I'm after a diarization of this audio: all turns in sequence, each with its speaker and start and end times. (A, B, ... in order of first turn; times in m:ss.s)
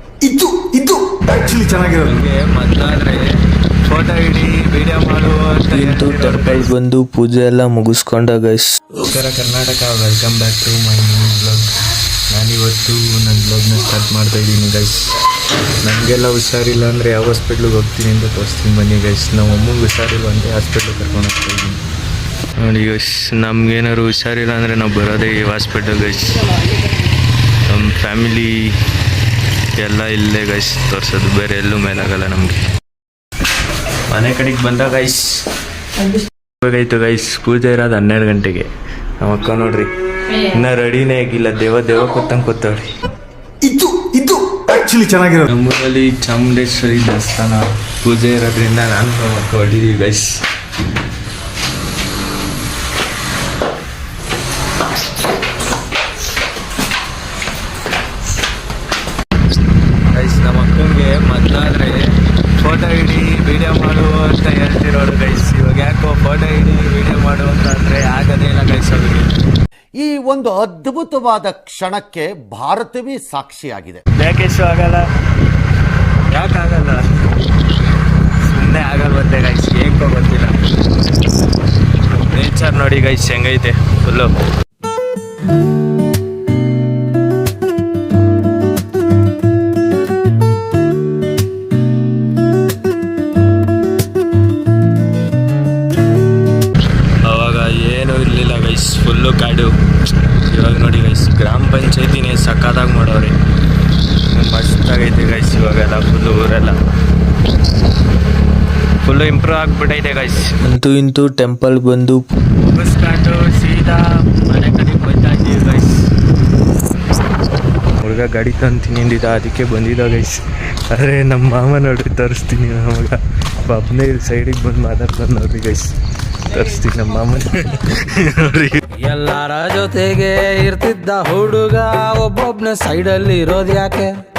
0:00.2-0:01.0 A
0:01.3-0:03.3 B
0:03.9-0:06.7 B
0:05.7-0:08.7 C
0:09.0-0:11.8 B
0:12.3-0:15.1 B
0:15.8-0:21.8 B
0:22.6-0:26.4 B
0:27.7-0:28.7 B
0:29.8-0:32.6 B
0:34.1-0:35.4 B
0:36.6-0:38.7 B
0:39.2-0:42.9 B
0:43.6-0:45.4 A
0:45.4-0:50.4 B
1:00.1-1:02.0 B
1:02.6-1:09.3 B
1:10.0-1:14.0 D
1:14.2-1:15.0 B
1:16.3-1:17.0 B
1:18.4-1:20.6 B
1:22.3-1:24.3 B
1:37.2-1:39.7 B
1:40.5-1:43.4 B
1:44.3-1:46.8 B
1:49.0-1:50.6 B
1:50.6-1:52.2 C
1:52.6-1:56.1 B
1:58.0-2:05.9 B
2:06.4-2:08.8 B
2:09.0-2:14.2 E